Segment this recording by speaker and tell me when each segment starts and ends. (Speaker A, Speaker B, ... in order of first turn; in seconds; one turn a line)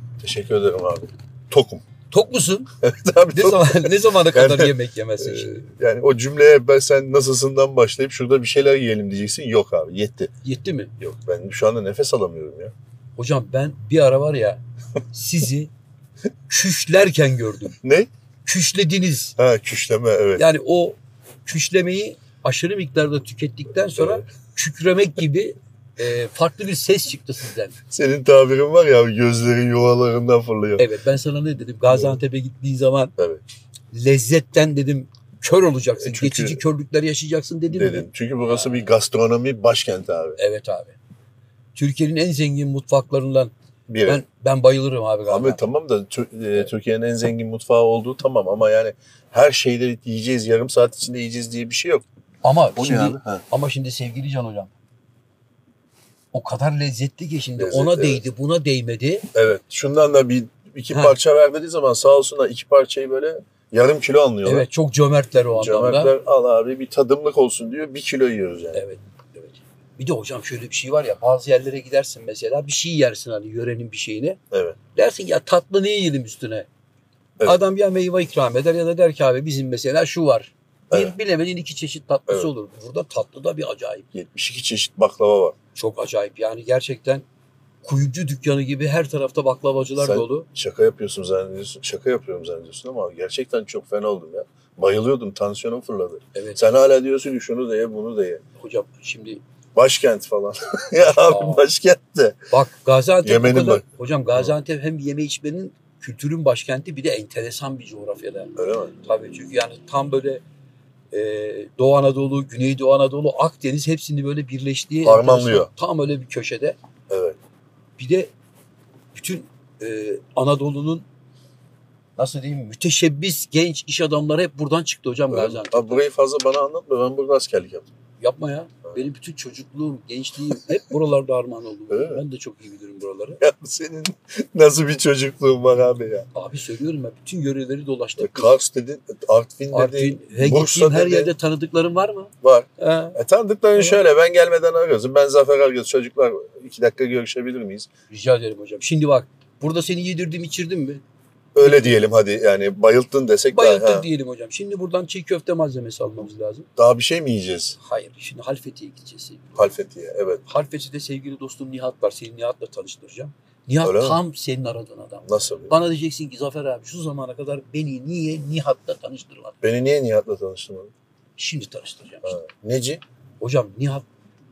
Speaker A: 0.2-1.8
Speaker B: 2.1-2.7
Speaker A: 2.8-10.3
Speaker B: 3.3-5.7
Speaker B: 10.4-10.9
Speaker A: 11.0-12.7
Speaker B: 13.2-15.7
Speaker B: 16.5-17.8
Speaker A: 17.8-18.1
Speaker B: 18.5-19.4
Speaker A: 19.4-20.4
Speaker B: 20.4-27.8
Speaker A: 24.0-24.2
Speaker A: 27.9-30.9
Speaker B: 30.8-33.1
Speaker A: 31.9-32.2
Speaker B: 33.9-38.9
Speaker A: 36.0-36.6
Speaker A: 37.7-40.4
Speaker B: 40.4-41.0
Speaker B: 41.8-43.5
Speaker A: 43.9-44.2
Speaker B: 44.0-45.6
Speaker A: 45.3-52.0
Speaker B: 52.4-54.7
Speaker A: 52.8-53.4
Speaker B: 56.3-59.3
Speaker A: 57.6-58.2
Speaker A: 59.3-64.7
Speaker B: 60.9-61.2
Speaker B: 64.4-66.1
Speaker A: 65.6-68.8
Speaker B: 68.7-74.4
Speaker A: 74.5-74.8
Speaker B: 74.9-76.7
Speaker B: 77.4-84.1
Speaker A: 84.1-85.5
Speaker B: 85.8-87.2
Speaker B: 87.8-90.5
Speaker A: 90.0-98.4
Speaker B: 96.3-96.7
Speaker B: 98.6-99.4
Speaker A: 99.8-102.4
Speaker B: 101.0-101.7
Speaker B: 102.5-110.4
Speaker A: 103.2-104.5
Speaker A: 108.6-109.0
Speaker B: 111.1-116.8
Speaker A: 115.0-115.7
Speaker A: 117.1-117.4
Speaker B: 118.0-118.3
Speaker B: 119.1-121.0
Speaker B: 122.2-126.0
Speaker A: 125.3-127.9
Speaker B: 128.2-133.4
Speaker A: 131.9-132.2
Speaker A: 133.4-136.3
Speaker B: 136.3-138.6
Speaker A: 138.2-141.3
Speaker B: 139.7-143.2
Speaker A: 142.4-147.9
Speaker B: 143.8-144.0
Speaker B: 148.1-151.0
Speaker A: 151.6-154.1
Speaker B: 151.6-152.0
Speaker B: 153.5-156.7
Speaker A: 156.8-157.8
Speaker B: 157.8-159.6
Speaker A: 159.6-160.4
Speaker B: 160.5-169.6
Speaker A: 163.8-164.2
Speaker A: 165.3-165.7
Speaker A: 169.6-170.9
Speaker B: 171.4-172.4
Speaker A: 172.2-173.0
Speaker B: 173.4-174.1